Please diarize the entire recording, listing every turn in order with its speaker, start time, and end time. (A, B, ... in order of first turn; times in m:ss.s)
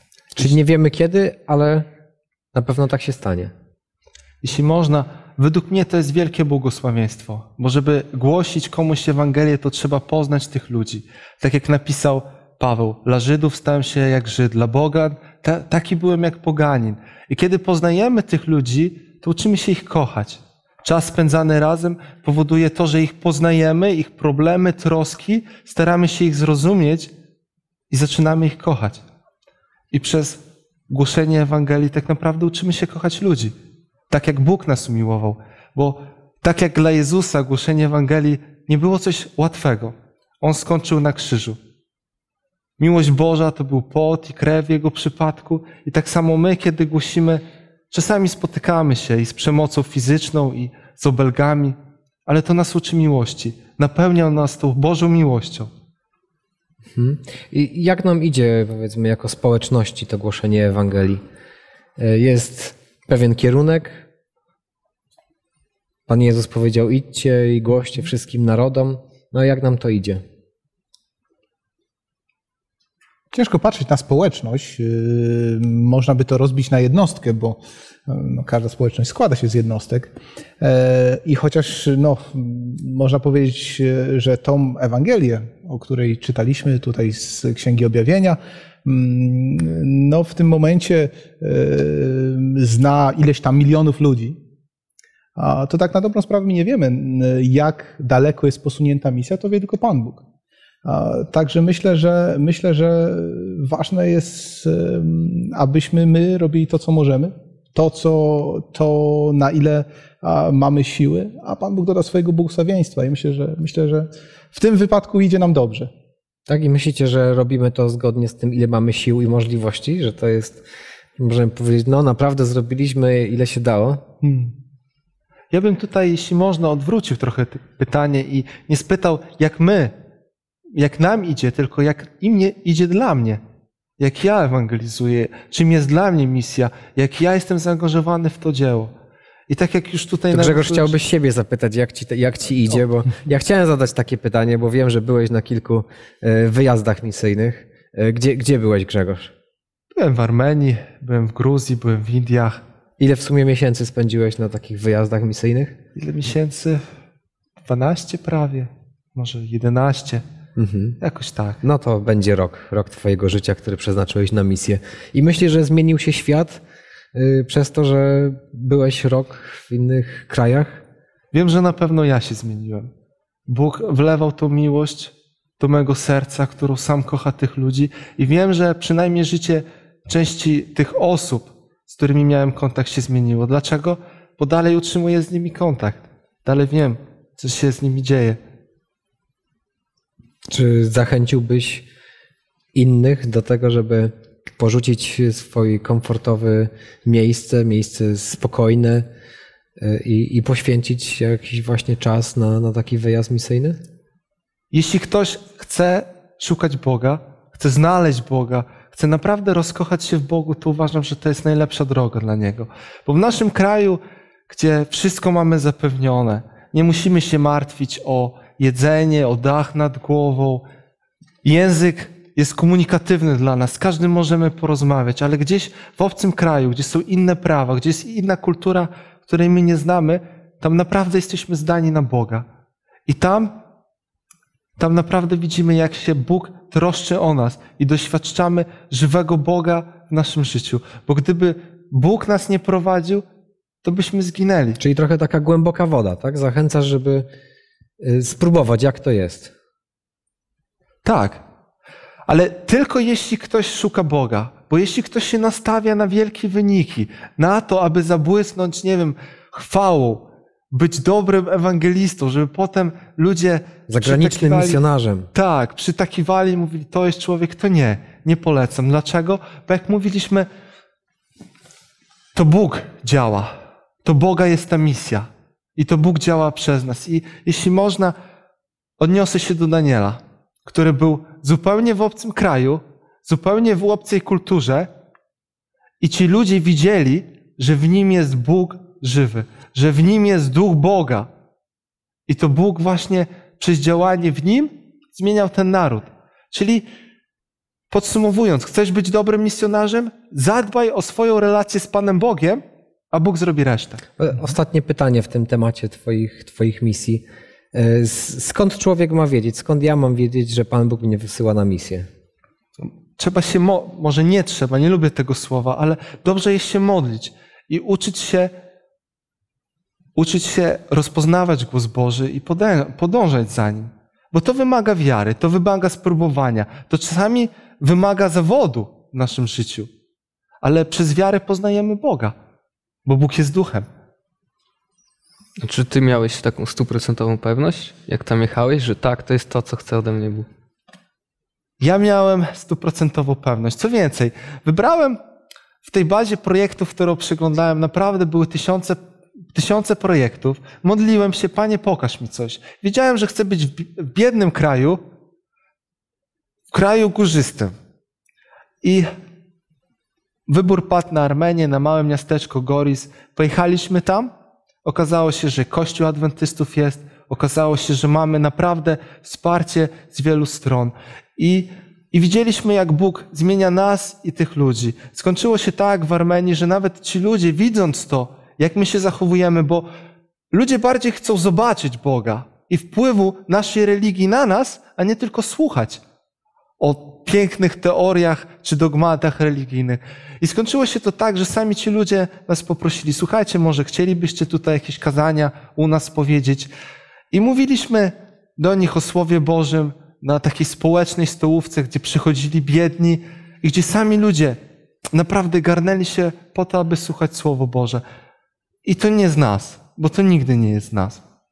0:00.3-0:01.9 A
0:02.5-0:03.5 A
0:04.4-0:27.1 B
0:27.9-0:29.0 B
0:29.9-0:33.5 B
0:34.1-0:41.6 B
0:42.8-0:55.7 B
0:56.9-1:01.2 A
1:02.0-1:04.0 A
1:06.1-1:10.2 A
1:13.3-1:34.4 C
1:35.4-1:40.2 C
1:40.8-1:55.9 C
1:56.5-2:00.6 A
2:01.2-2:04.0 A
2:04.2-2:04.5 C
2:05.5-2:09.9 B
2:10.7-2:13.4 B
2:14.0-2:18.9 B
2:19.5-2:20.9 B
2:20.3-2:29.3 A
2:29.9-2:32.6 B
2:33.0-2:35.8 A
2:36.0-2:36.8 B
2:37.6-2:40.2 B
2:40.6-2:41.0 A
2:41.0-2:41.6 B
2:41.6-2:46.6 A
2:47.1-2:50.8 A
2:51.3-2:52.9 B
2:53.5-3:08.4 B
3:10.5-3:11.8 A
3:12.7-3:19.1 A
3:19.8-3:23.8 A
3:24.7-3:40.6 B
3:41.4-3:52.4 B
3:53.1-3:53.6 B
3:54.8-4:03.2 B
4:03.8-4:04.8 B
4:04.8-4:07.3 A
4:08.0-4:09.5 A
4:11.0-4:11.4 B
4:12.3-4:24.8 B
4:23.9-4:25.3 A
4:25.3-4:30.5 B
4:32.3-4:38.1 B
4:39.0-4:44.9 B
4:46.0-4:51.3 B
4:52.3-4:56.8 B
4:57.9-5:04.0 B
5:04.2-5:12.1 A
5:12.8-5:18.5 B
5:20.2-5:29.9 B
5:30.6-5:32.3 B
5:33.0-5:33.9 B
5:35.6-5:40.5 D
5:41.8-5:45.2 B
5:45.8-5:49.0 B
5:49.5-5:55.0 B
5:56.7-5:57.7 B
5:58.8-5:59.1 B
6:00.5-6:04.3 B
6:04.8-6:19.9 B
6:20.5-6:26.0 B
6:26.8-6:36.7 B
6:37.3-6:44.6 B
6:45.1-6:48.0 B
6:48.8-6:51.2 B